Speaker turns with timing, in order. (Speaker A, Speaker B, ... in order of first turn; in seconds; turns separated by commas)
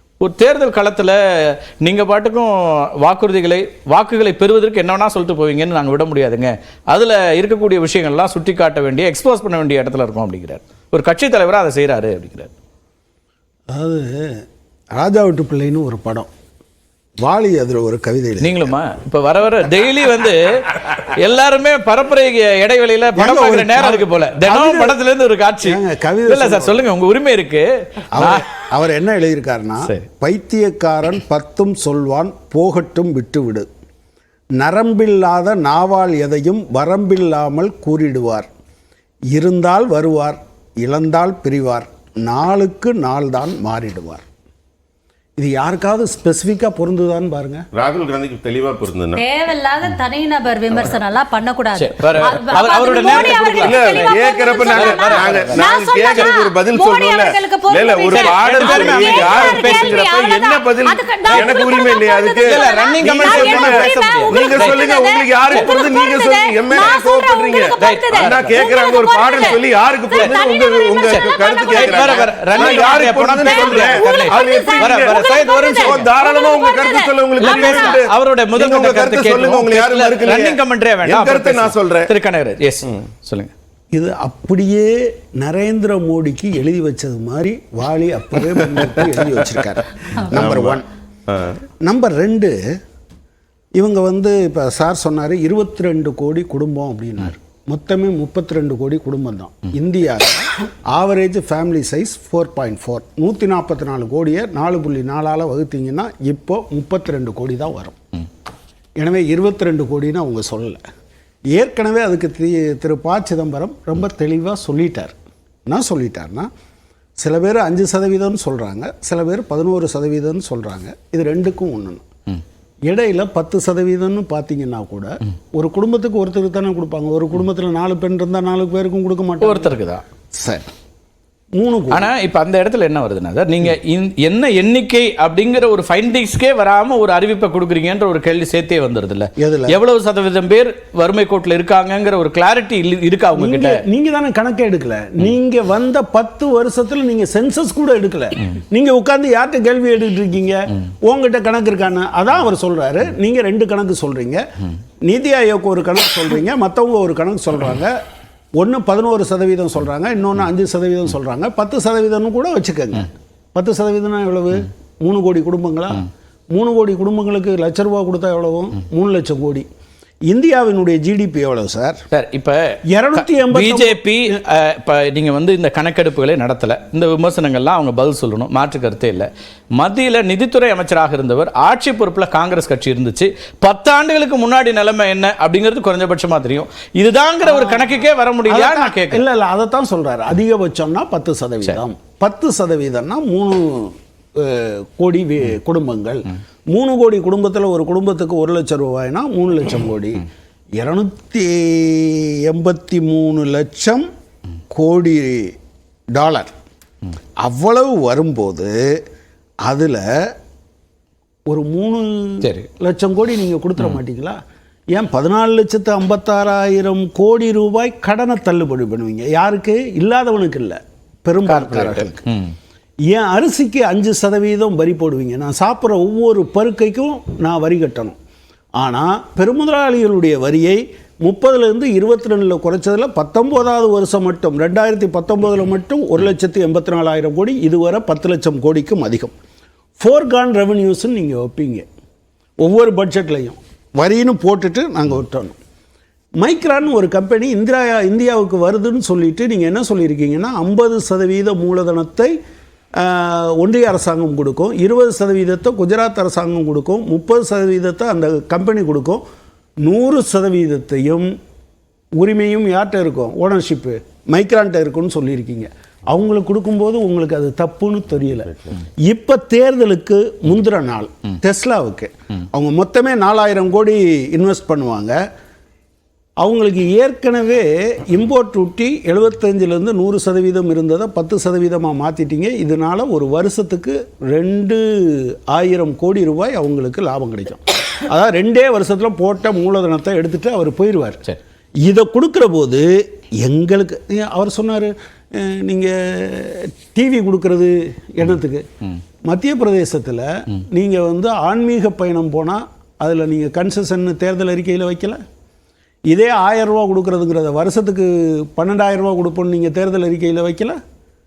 Speaker A: 0.2-12.5, Speaker B: 13.7-14.4, Speaker B: 14.9-16.3, Speaker B: 17.2-18.7, Speaker A: 18.4-28.4, Speaker B: 23.1-25.0, Speaker B: 25.6-26.9, Speaker B: 28.1-33.7, Speaker B: 34.6-38.5, Speaker B: 39.3-44.2, Speaker B: 45.4-47.6, Speaker C: 47.7-49.2, Speaker D: 49.1-78.0, Speaker A: 51.7-56.3, Speaker C: 52.9-82.1, Speaker A: 58.1-60.0, Speaker A: 61.3-61.6, Speaker A: 62.4-64.8, Speaker A: 67.8-68.6, Speaker A: 71.0-76.1, Speaker A: 77.4-83.5, Speaker B: 83.9-90.8, Speaker C: 90.2-91.6, Speaker B: 91.8-92.5, Speaker B: 93.8-108.0, Speaker B: 109.0-110.8, Speaker B: 111.5-115.1, Speaker B: 115.7-116.5, Speaker B: 117.2-122.0, Speaker B: 122.9-129.7, Speaker A: 129.4-130.0, Speaker B: 130.3-130.6, Speaker B: 131.5-132.1, Speaker A: 131.9-143.8, Speaker B: 139.4-139.8, Speaker B: 143.3-154.4, Speaker B: 155.0-157.9, Speaker B: 158.6-169.7, Speaker B: 170.3-172.0, Speaker A: 172.1-172.8, Speaker B: 172.9-174.4, Speaker A: 173.4-189.2, Speaker B: 187.4-200.3, Speaker B: 200.8-204.1, Speaker B: 204.7-205.5, Speaker B: 206.2-206.5, Speaker B: 207.4-209.0, Speaker B: 209.7-210.3, Speaker B: 211.5-214.4, Speaker A: 212.4-212.7, Speaker B: 214.9-222.2, Speaker A: 221.5-222.5, Speaker B: 223.1-228.1, Speaker B: 228.8-239.3, Speaker B: 240.0-241.8, Speaker B: 242.6-245.6, Speaker B: 246.4-252.3, Speaker B: 253.0-259.2, Speaker B: 259.8-261.3, Speaker B: 262.2-275.2, Speaker B: 276.4-291.2, Speaker B: 291.8-292.9, Speaker B: 293.4-298.6, Speaker B: 299.2-305.2, Speaker B: 306.1-310.8